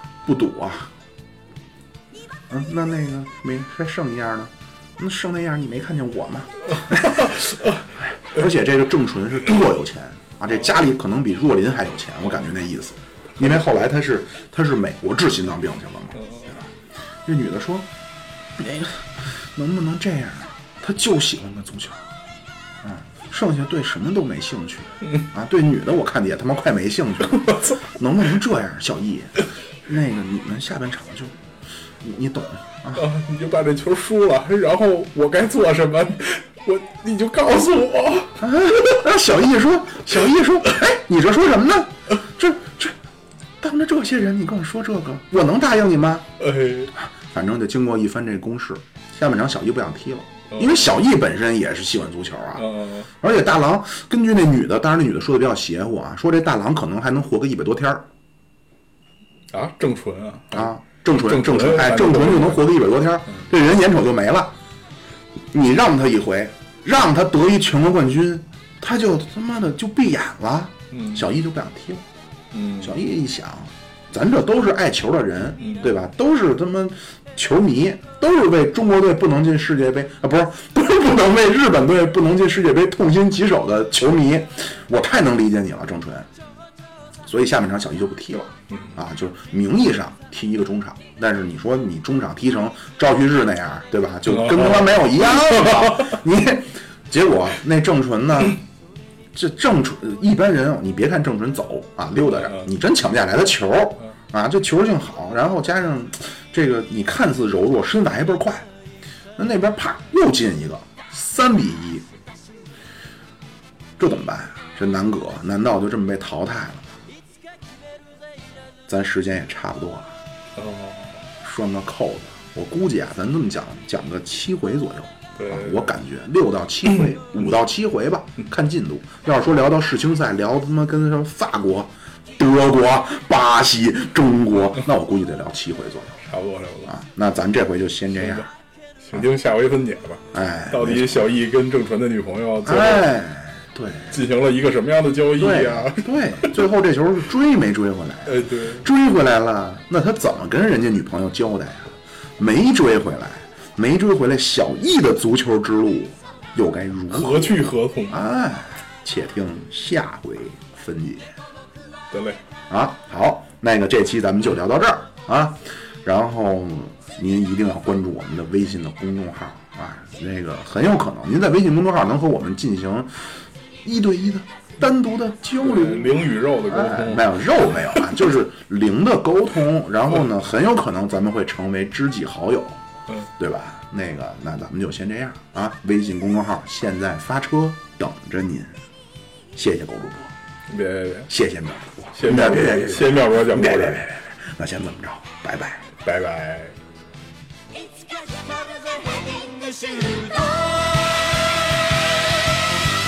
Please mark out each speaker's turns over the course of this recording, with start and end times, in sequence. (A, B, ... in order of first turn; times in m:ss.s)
0:00.2-0:00.9 A
0:02.5-0:07.4 A
0:08.3-0:16.6 A
0:17.2-0:17.9 A
0:18.6-0:22.0 A
0:22.8-0:31.3 A
0:32.0-0:33.1 A
0:32.9-0:39.0 B
0:38.4-0:43.0 A
0:43.6-0:46.3 A
0:46.4-0:46.9 B
0:47.0-0:52.7 A
0:50.5-0:51.0 B
0:52.6-0:53.1 B
0:53.2-0:58.0 A
0:59.5-1:00.7 B
1:00.5-1:04.5 A
1:01.2-1:02.6 B
1:05.5-1:12.0 A
1:10.9-1:11.2 B
1:12.5-1:12.9 B
1:12.8-1:26.3 A
1:15.6-1:15.9 B
1:27.3-1:38.6 A
1:34.3-1:36.2 B
1:39.3-1:48.7 A
1:49.4-1:52.1 A
1:54.0-1:56.9 A
1:58.9-2:00.1 A
2:00.6-2:01.2 B
2:01.4-2:16.2 A
2:05.4-2:05.8 B
2:16.2-2:16.9 B
2:16.9-2:18.5 A
2:19.0-2:23.1 B
2:20.3-2:21.3 A
2:22.6-2:24.1 A
2:24.1-2:26.5 B
2:25.4-2:41.2 A
2:28.3-2:28.8 B
2:37.1-2:38.3 B
2:42.1-2:42.4 B
2:42.7-2:53.2 A
2:53.8-3:02.8 A
2:55.6-2:58.1 B
3:03.4-3:08.7 A
3:09.6-3:10.3 A
3:10.7-3:11.3 B
3:11.3-3:15.9 A
3:12.2-3:14.1 B
3:16.0-3:16.8 B
3:18.1-3:21.6 C